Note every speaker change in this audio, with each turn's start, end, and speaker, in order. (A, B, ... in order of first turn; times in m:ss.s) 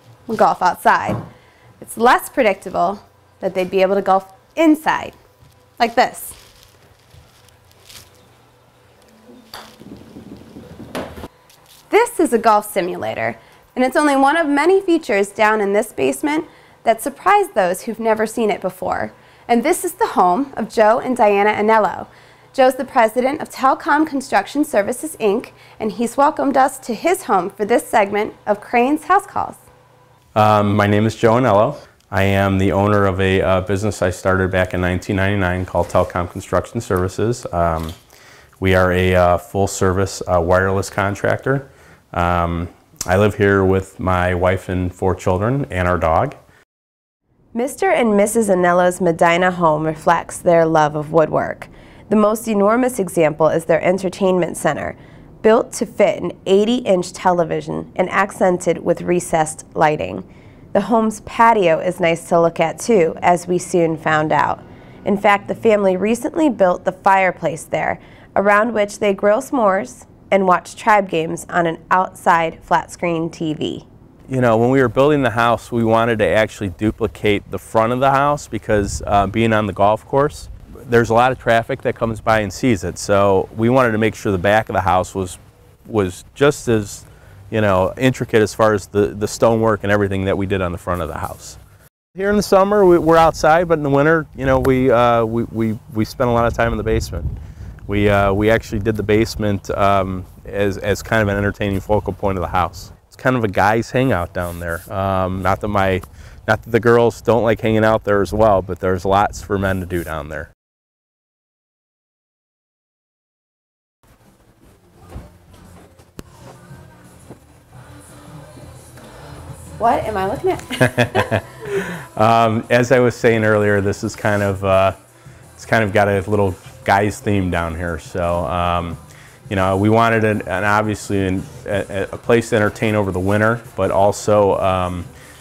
0:00.3-0:01.2 A
0:01.8-0:05.2 A
0:05.8-0:06.4 A
0:11.9-0:29.6 A
0:30.3-0:37.9 B
0:38.6-0:46.4 B
0:47.5-1:13.9 A
1:14.3-1:31.6 B
1:32.1-1:37.3 B
1:37.9-1:50.5 B
1:59.8-2:01.4 A
2:00.9-2:04.9 B
2:05.6-2:15.1 B